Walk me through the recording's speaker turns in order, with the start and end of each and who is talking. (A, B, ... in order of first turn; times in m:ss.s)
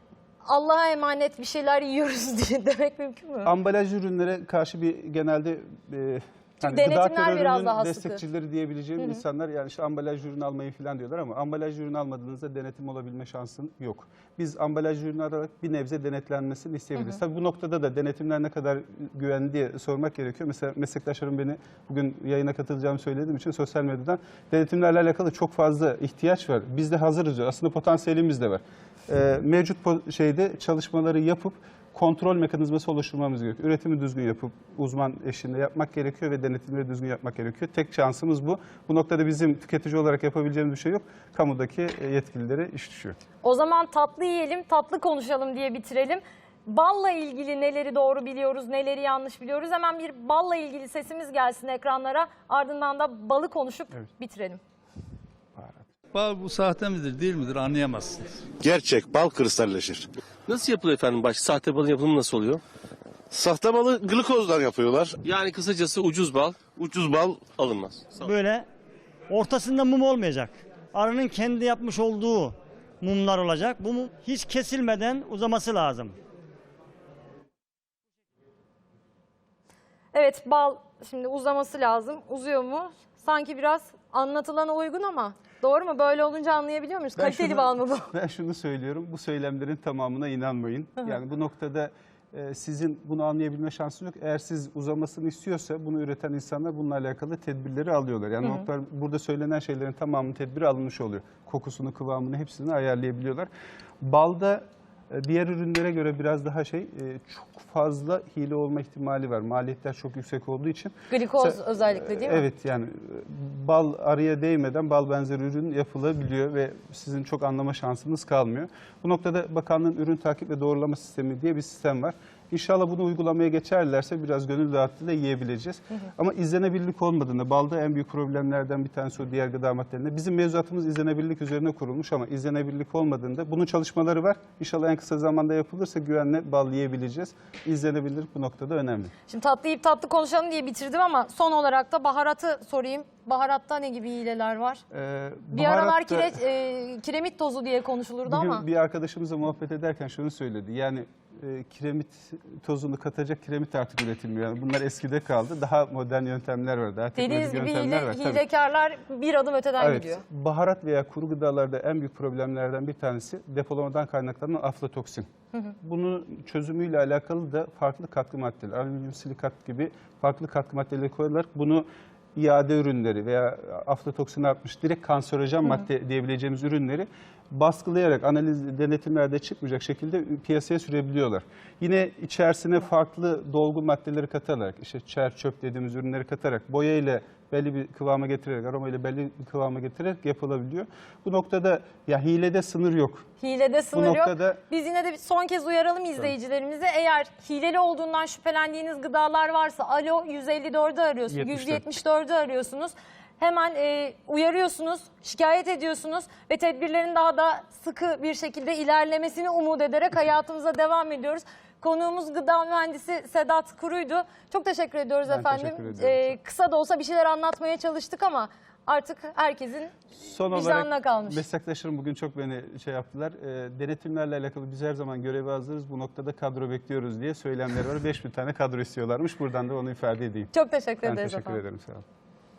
0:00.5-0:03.5 A
0:03.4-0:43.2 B
0:06.6-0:08.2 A
0:43.4-0:54.6 A
0:56.2-0:58.1 C
0:58.6-1:00.1 D
1:00.5-1:02.6 E
1:03.3-1:05.2 D
1:05.2-1:08.3 E
1:06.8-1:07.4 D
1:08.2-1:08.6 F
1:09.3-1:16.2 F
1:20.1-1:28.1 A
1:27.2-1:43.5 B
1:44.0-2:19.1 B
1:51.1-1:52.4 A
2:19.3-2:24.8 A
2:24.9-2:26.4 B
2:25.5-2:28.6 A
2:28.3-2:38.4 B
2:37.2-2:40.2 A
2:39.8-2:45.3 B
2:45.8-3:13.3 B
3:13.4-3:39.9 A
3:13.9-3:14.6 B
3:21.3-3:21.8 B
3:35.3-3:36.4 B
3:40.2-3:50.5 B
3:40.5-3:41.4 A
3:50.5-3:51.6 A
3:51.0-3:52.0 B